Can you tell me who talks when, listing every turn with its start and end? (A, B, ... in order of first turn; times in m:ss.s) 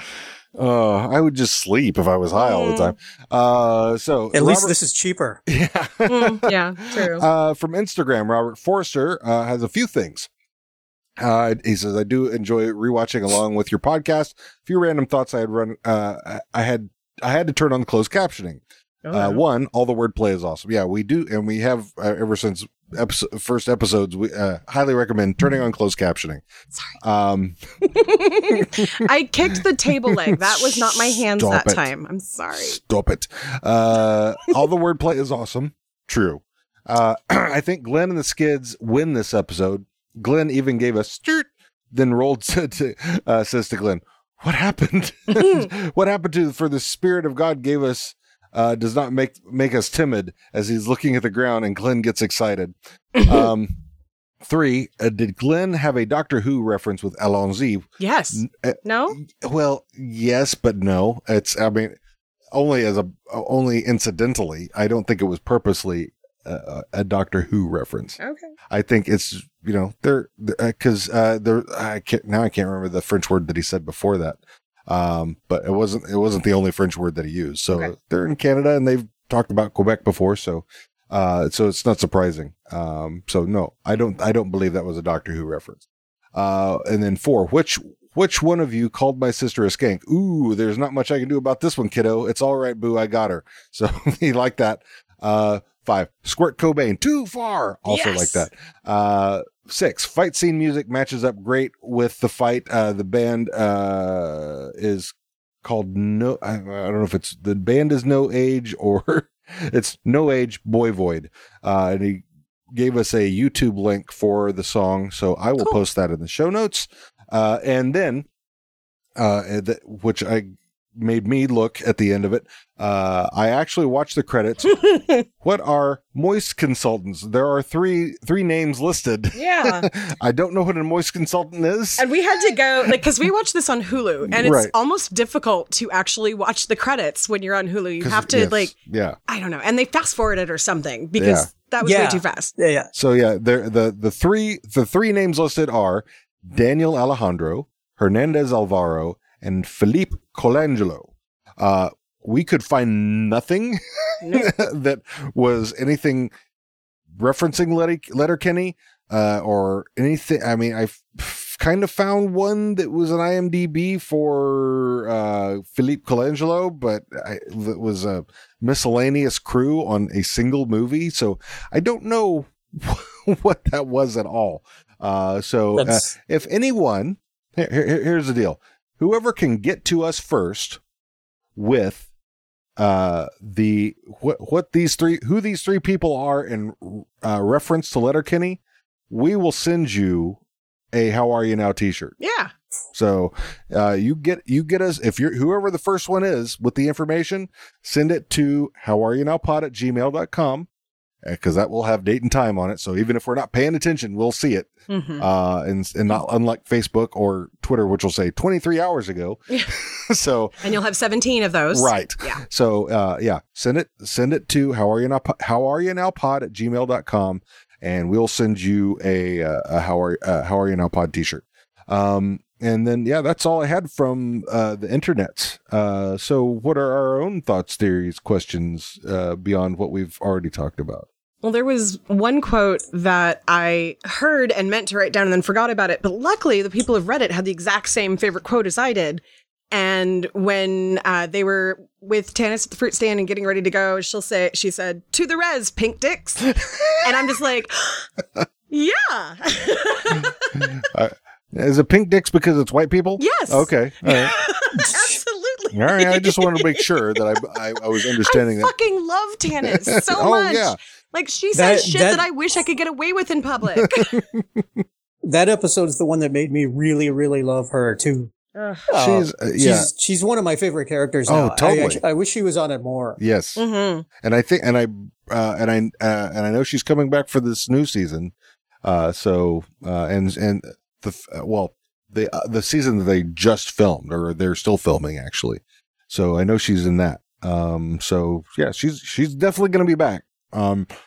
0:00.6-0:04.8 A
0:02.4-0:02.9 B
0:04.3-0:05.4 C
0:05.5-0:10.3 A
0:06.1-0:07.3 B
0:11.2-0:18.6 A
0:19.0-0:19.4 B
0:19.1-0:26.4 A
0:27.0-0:27.6 A
0:27.9-0:32.8 B
0:28.5-0:31.9 A
0:32.5-0:53.8 A
0:45.3-0:45.7 B
0:53.2-0:53.4 B
0:54.4-1:02.0 A
0:58.0-0:59.2 B
1:02.5-1:08.2 A
1:08.2-1:08.5 B
1:08.7-1:25.8 A
1:26.4-1:58.3 A
1:37.9-1:38.5 B
1:59.2-2:04.8 A
2:04.7-2:05.2 B
2:05.4-2:12.1 A
2:09.4-2:09.9 B
2:12.0-2:18.7 B
2:14.3-2:14.7 A
2:18.0-2:19.2 A
2:19.3-2:22.6 B
2:21.2-2:21.5 A
2:21.8-2:22.9 C
2:22.9-2:36.3 A
2:34.2-2:34.5 B
2:37.2-3:00.8 A
2:55.8-2:56.1 C
3:01.6-3:02.1 A
3:02.8-3:10.4 A
3:10.9-3:12.2 A
3:12.2-3:12.5 B
3:12.9-3:20.7 A
3:21.2-3:30.6 A
3:24.9-3:25.3 B
3:30.6-3:32.4 B
3:31.7-3:51.1 A
3:51.4-4:08.1 B
4:06.6-4:07.0 A
4:08.7-4:10.6 B
4:10.6-4:14.3 A
4:13.2-4:17.2 B
4:14.8-4:15.2 C
4:15.7-4:18.7 A
4:18.2-4:24.2 B
4:19.7-4:20.8 A
4:21.5-4:22.3 C
4:23.8-4:24.8 A
4:25.2-4:28.3 C
4:28.6-4:28.8 B
4:28.9-4:33.2 C
4:29.0-4:29.9 A
4:31.3-4:32.0 A
4:33.2-4:33.6 A
4:33.6-4:34.1 B
4:34.2-4:50.9 A